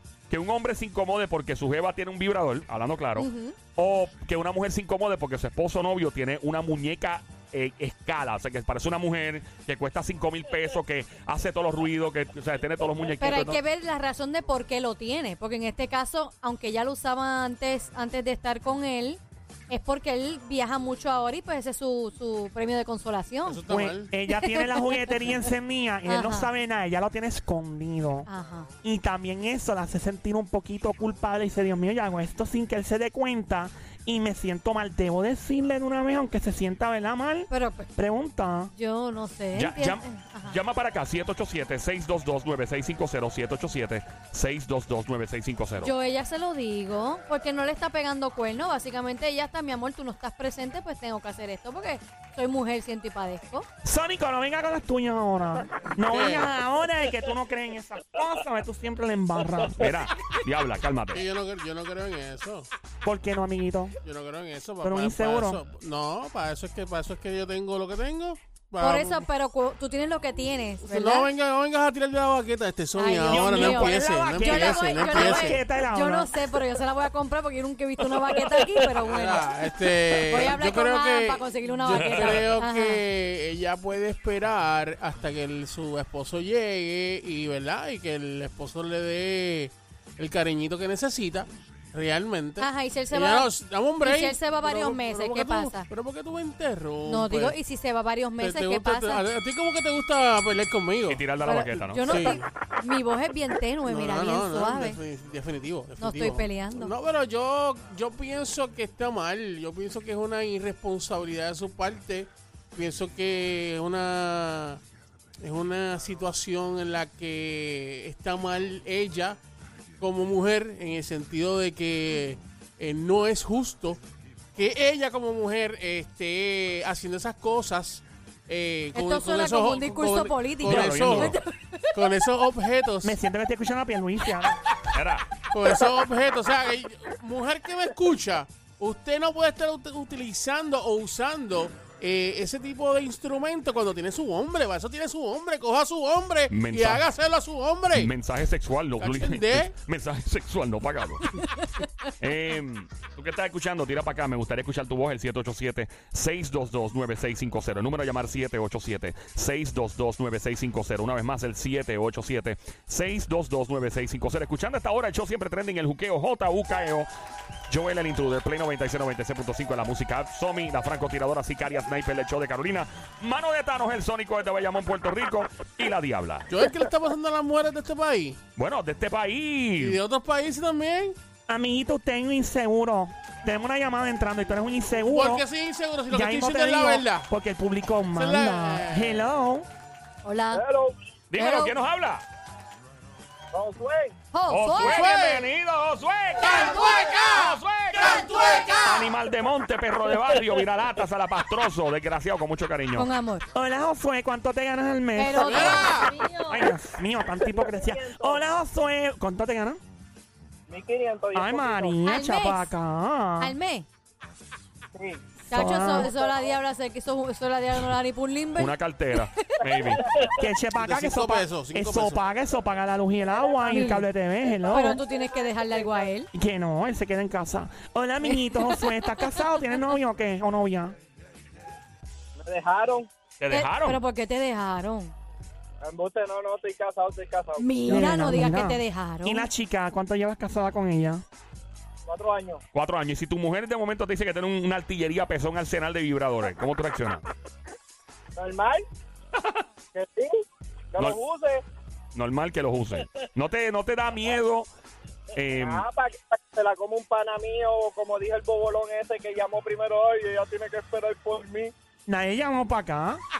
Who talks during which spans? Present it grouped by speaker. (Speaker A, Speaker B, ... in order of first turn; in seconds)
Speaker A: 0.3-13.6, 39.5-45.9, 59.8-61.2, 81.9-82.4, 101.1-102.4, 130.6-131.3, 134.9-135.3, 146.5-147.1, 147.9-151.2, 152.2-167.1, 167.7-176.5, 178.6-180.0, 191.3-192.2, 194.5-203.1, 218.6-220.1, 233.4-234.0, 242.7-247.2, 252.1-254.7, 255.3-255.9
Speaker B: 3.1-3.5, 13.2-23.6, 24.3-25.1, 26.1-26.5, 28.3-28.7, 37.5-37.9, 38.7-40.6, 45.8-53.6, 68.8-71.3, 72.9-79.5, 80.2-83.0, 92.6-93.5, 94.0-95.9, 97.0-99.2, 101.5-105.0, 106.0-106.9, 128.9-132.0, 151.4-151.9, 190.2-190.6, 191.3-191.7, 194.3-195.5, 196.4-197.2, 198.3-199.1, 202.9-203.5, 205.2-206.2, 212.0-212.7, 213.4-213.9, 215.5-219.9, 223.7-224.1, 224.7-226.3, 228.2-229.4, 233.5-235.1, 237.6-239.5
Speaker C: 23.4-24.1, 56.1-56.5, 61.1-62.7, 64.0-69.3, 70.8-75.6, 79.0-97.6, 98.4-101.3, 102.0-102.5, 103.8-114.8, 115.4-119.4, 120.0-124.0, 124.5-131.3, 131.9-133.2, 135.5-148.1, 149.0-149.7, 176.5-178.4, 179.8-181.2, 185.0-187.3, 188.1-189.2, 194.7-195.5, 196.4-198.9, 205.3-206.2, 220.7-222.2
Speaker D: 23.7-28.3, 28.8-38.7, 53.8-59.9, 63.0-64.0, 64.8-65.6, 73.3-76.3, 133.0-134.6, 181.5-185.4, 186.1-189.7, 203.5-209.8, 211.3-213.5, 215.5-216.1, 220.3-225.0, 226.3-230.9, 237.9-241.2, 262.1-263.2
Speaker E: 190.5-190.9, 193.5-194.1, 206.2-206.5, 207.5-208.4, 210.7-212.0, 214.9-215.3, 216.0-216.5, 219.8-220.3, 224.6-226.1, 232.4-233.1, 235.8-237.8, 242.1-242.6, 248.3-248.8, 249.9-250.3, 250.9-251.6, 255.5-261.7